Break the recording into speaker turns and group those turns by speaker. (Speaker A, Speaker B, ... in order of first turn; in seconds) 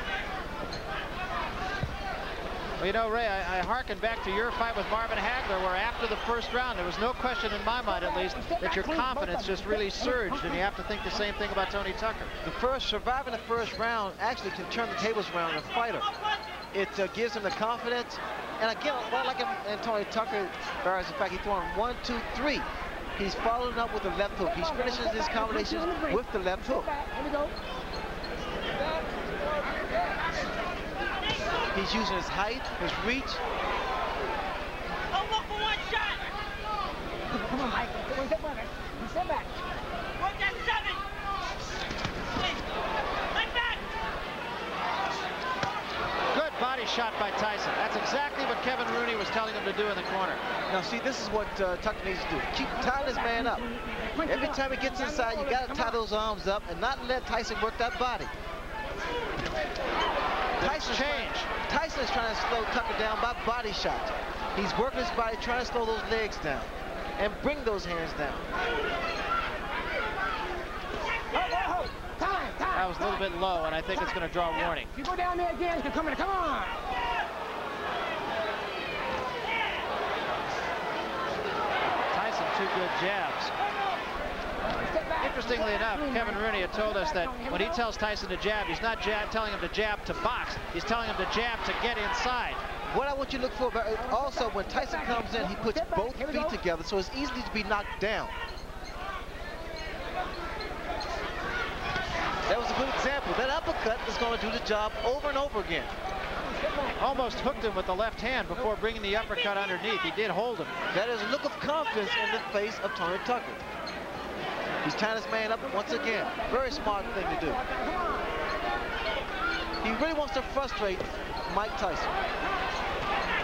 Speaker A: 2.8-12.3, 46.3-50.4, 60.6-61.5, 72.7-74.9, 82.1-83.5, 85.2-92.6, 107.0-110.7
Speaker B: 7.9-10.6, 24.4-27.6, 37.3-39.6, 52.8-56.0, 71.3-76.8, 84.6-87.8, 94.0-96.6, 106.4-107.7, 115.6-118.3
Speaker C: 12.4-16.1, 16.7-26.9, 31.7-33.4, 50.7-53.6, 54.2-58.3, 60.6-68.5, 92.9-98.3, 102.5-105.9, 110.9-113.6, 114.8-117.6, 119.8-122.1
Speaker D: 35.1-36.2, 40.2-41.0, 42.4-42.6, 43.3-43.9